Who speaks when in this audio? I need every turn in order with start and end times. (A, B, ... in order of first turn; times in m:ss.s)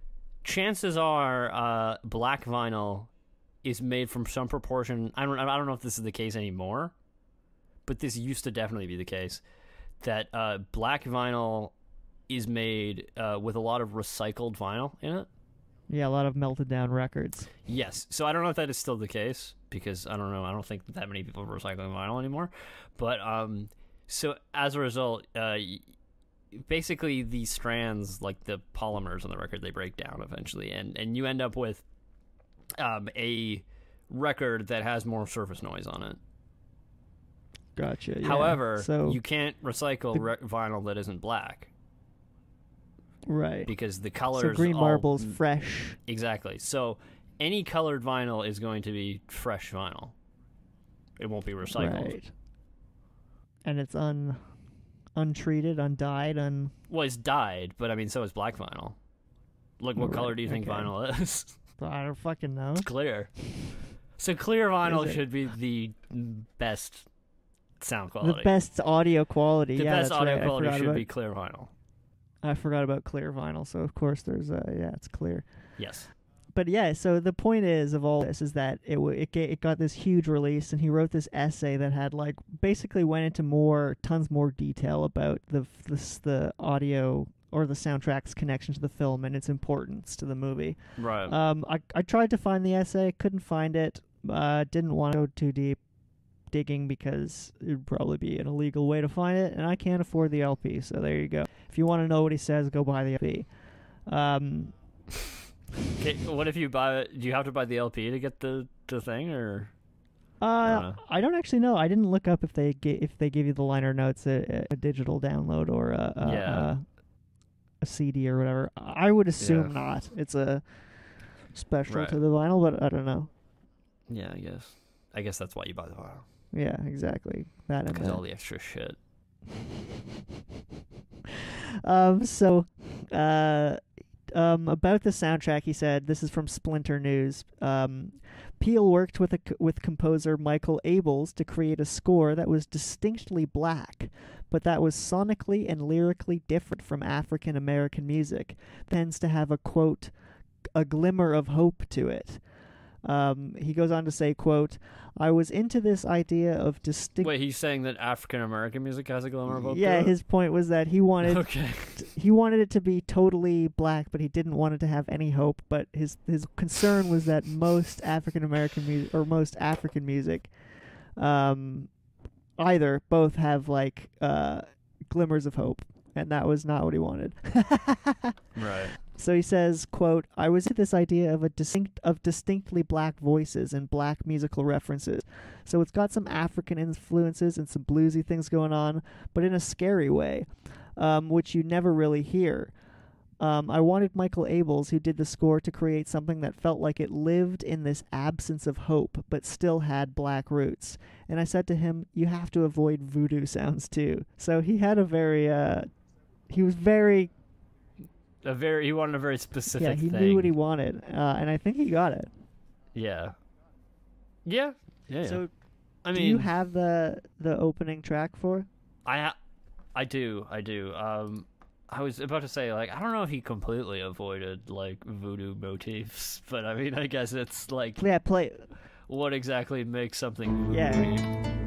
0:00.4-0:03.1 A
0:03.6-0:06.9 A
0:07.8-0:09.4 A
0:10.0-0:11.7 A
0:12.3-0:15.3 A
0:15.9-0:17.5 B
0:17.7-0:25.9 A
0:26.5-0:31.8 A
0:32.8-0:36.2 A
0:37.8-0:39.2 B
0:38.2-0:41.7 A
0:43.3-0:43.7 B
0:43.7-0:45.4 A
0:44.3-0:46.0 B
0:46.1-0:50.2 A
0:51.2-0:52.2 A
0:51.7-0:52.3 B
0:53.6-0:54.5 B
0:55.2-0:56.7 B
0:56.9-0:59.0 A
0:59.8-1:01.6 A
1:00.0-1:01.0 B
1:01.8-1:02.9 B
1:02.8-1:07.1 A
1:04.8-1:05.2 B
1:07.8-1:08.5 A
1:08.2-1:11.0 B
1:09.8-1:11.7 A
1:12.4-1:15.7 B
1:15.8-1:16.1 A
1:16.6-1:35.8 B
1:31.0-1:31.4 A
1:36.5-1:43.5 B
1:44.1-1:44.7 B
1:46.0-1:49.7 A
1:50.4-1:56.8 B
1:50.6-1:51.0 A
1:56.2-1:56.7 A
1:57.8-2:03.3 B
1:59.4-1:59.8 A
2:01.9-2:02.2 A
2:04.1-2:06.3 A
2:06.5-2:08.2 B
2:07.9-2:09.0 A
2:11.8-2:30.1 B
2:30.8-2:32.4 B
2:33.0-2:37.3 B
2:37.2-2:40.2 A
2:39.6-2:51.9 B
2:41.2-2:42.1 A
2:52.6-2:58.4 B
2:58.6-2:59.0 A
2:59.0-3:12.7 B
3:13.4-3:25.9 B
3:26.5-3:27.3 B
3:28.4-3:30.5 A
3:29.8-3:32.3 B
3:32.9-3:33.4 A
3:34.4-3:35.4 A
3:35.2-3:35.5 B
3:36.0-3:36.5 A
3:36.1-3:38.7 B
3:39.0-3:39.4 A
3:40.0-3:48.0 A
3:48.0-3:48.7 B
3:49.1-3:51.3 A
3:50.7-3:51.2 B